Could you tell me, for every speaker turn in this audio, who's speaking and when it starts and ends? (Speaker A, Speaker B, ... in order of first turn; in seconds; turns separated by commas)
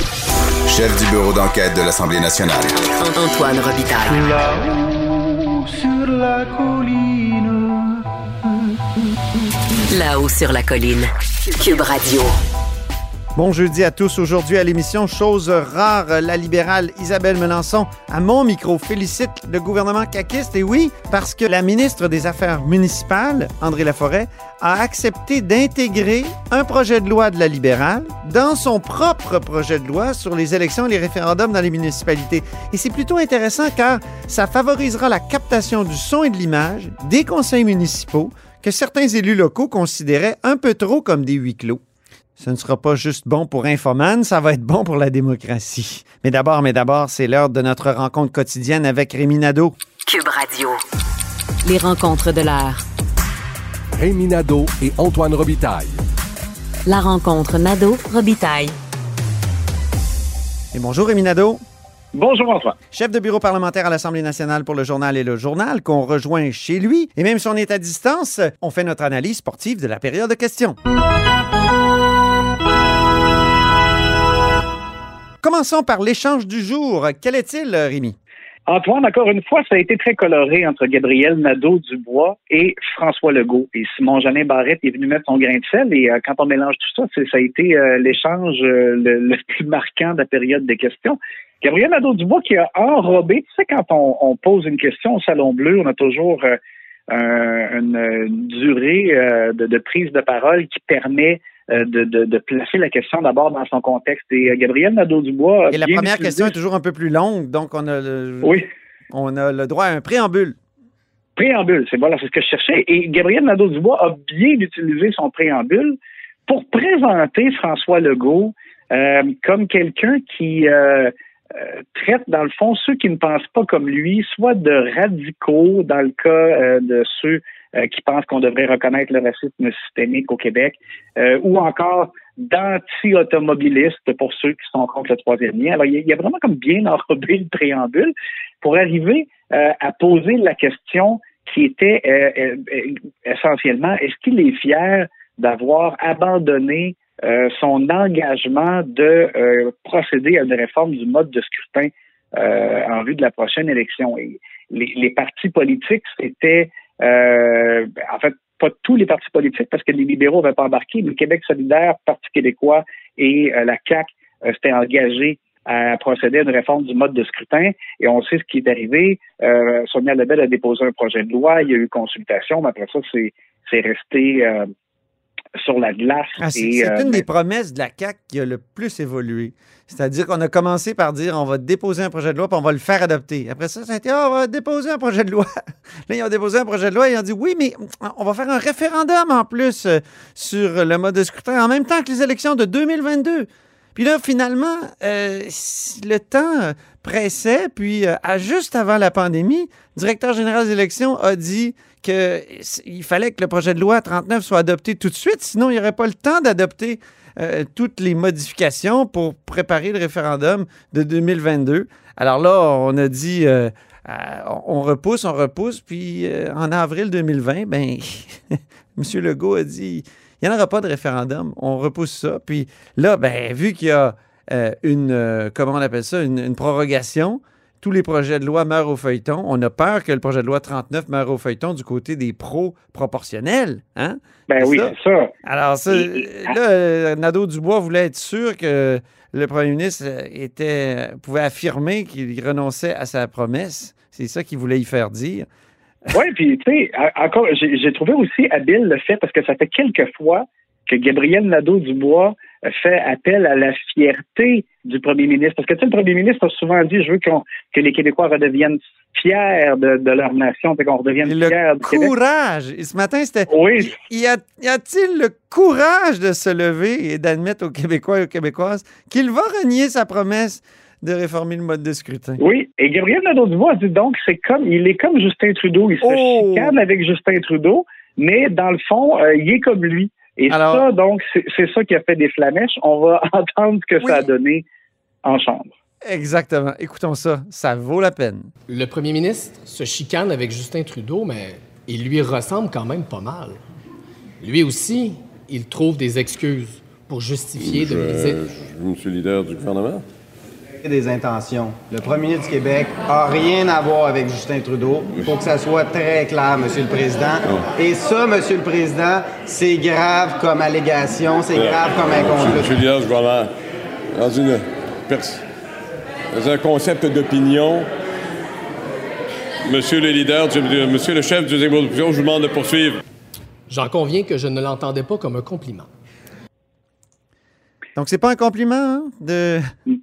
Speaker A: 0.7-2.8, Speaker B: 3.0-4.5, Speaker B: 9.9-12.3, Speaker C: 13.4-41.8, Speaker C: 42.4-49.8, Speaker B: 50.1-50.8, Speaker B: 51.6-52.8, Speaker D: 54.0-56.0, Speaker B: 56.9-58.8, Speaker C: 60.7-61.6, Speaker E: 62.1-62.8, Speaker C: 62.9-70.8, Speaker C: 75.4-78.2, Speaker E: 78.7-96.6, Speaker E: 97.1-106.5, Speaker C: 105.7-110.6, Speaker E: 111.4-174.7, Speaker E: 175.6-177.2, Speaker C: 176.4-185.5, Speaker C: 186.1-234.9, Speaker E: 234.5-235.3, Speaker C: 235.4-245.5, Speaker E: 235.9-236.5, Speaker E: 246.1-262.1, Speaker C: 261.2-272.4, Speaker E: 263.5-263.9, Speaker E: 272.4-284.6, Speaker C: 276.0-276.8, Speaker C: 280.5-280.9, Speaker C: 284.0-284.3, Speaker E: 285.2-285.7, Speaker C: 286.1-288.5, Speaker F: 288.7-293.6, Speaker F: 294.4-298.4, Speaker G: 297.6-300.1, Speaker H: 300.8-312.8, Speaker G: 311.6-313.5, Speaker G: 314.1-315.4, Speaker G: 316.3-317.9, Speaker G: 319.7-323.0, Speaker F: 323.7-325.9, Speaker C: 328.0-329.6